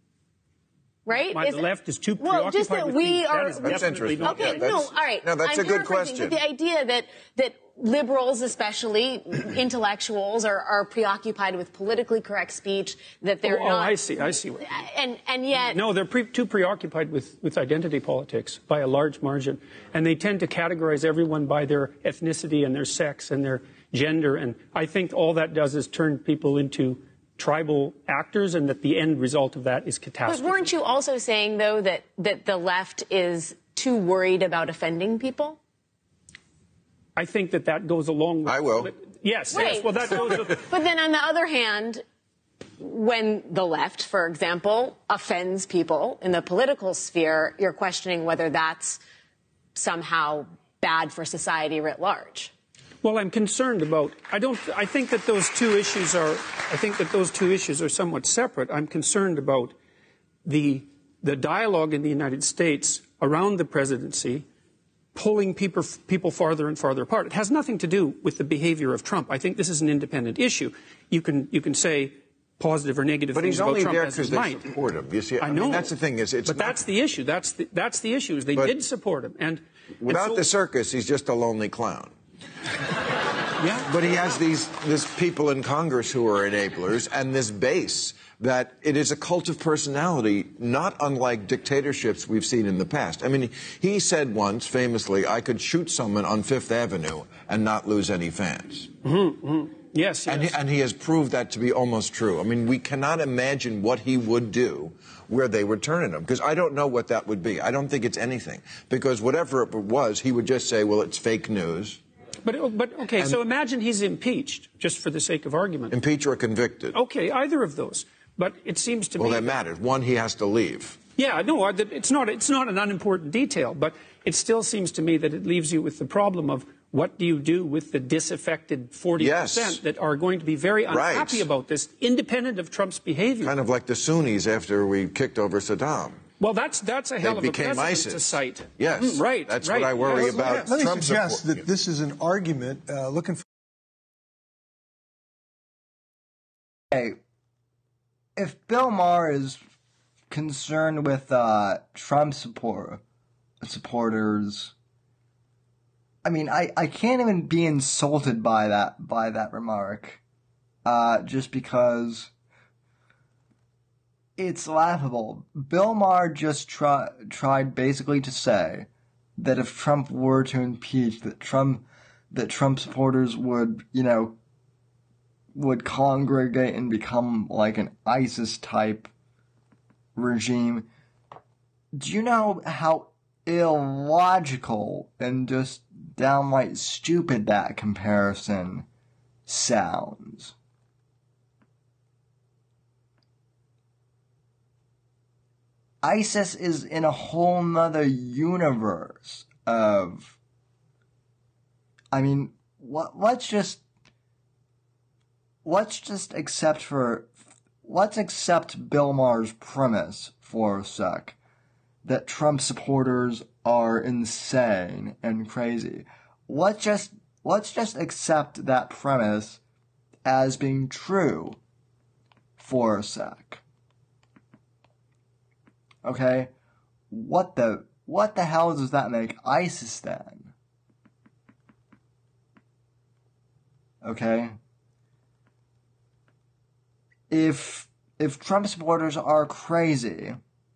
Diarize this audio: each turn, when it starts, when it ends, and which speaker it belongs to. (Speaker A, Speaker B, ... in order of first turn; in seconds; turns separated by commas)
Speaker A: 1.1-15.8, Speaker B: 1.2-5.0, Speaker C: 3.6-6.4, Speaker B: 13.4-14.7, Speaker B: 15.6-30.7, Speaker A: 30.2-35.6, Speaker B: 37.1-40.7, Speaker C: 38.4-38.9, Speaker A: 39.5-42.0, Speaker A: 42.8-49.0, Speaker A: 49.7-52.5, Speaker B: 53.0-59.8, Speaker B: 60.4-64.5, Speaker B: 65.1-74.7, Speaker C: 73.3-76.8, Speaker B: 75.4-80.5, Speaker C: 80.0-82.1, Speaker C: 83.7-98.9, Speaker B: 99.0-100.6, Speaker C: 100.2-112.0, Speaker B: 112.4-115.9, Speaker C: 115.9-116.9, Speaker B: 116.9-119.6, Speaker C: 119.2-121.0, Speaker B: 121.2-133.5, Speaker C: 129.2-129.8, Speaker C: 130.9-131.5, Speaker C: 133.4-136.2, Speaker B: 136.4-140.6, Speaker C: 137.2-141.6, Speaker D: 140.2-143.4, Speaker E: 146.9-147.2, Speaker E: 148.3-149.6, Speaker E: 150.3-153.0, Speaker E: 153.6-154.7, Speaker E: 156.2-160.2, Speaker E: 160.8-162.3, Speaker E: 164.4-174.4, Speaker E: 175.5-179.1, Speaker E: 180.2-180.9, Speaker E: 181.9-188.8, Speaker E: 189.5-190.5, Speaker E: 196.0-200.4, Speaker E: 202.1-203.8, Speaker E: 205.6-211.4, Speaker E: 212.0-219.6, Speaker E: 220.2-221.6, Speaker E: 222.6-223.6, Speaker E: 226.0-226.5, Speaker E: 227.1-230.5, Speaker E: 234.0-234.6, Speaker E: 237.3-240.4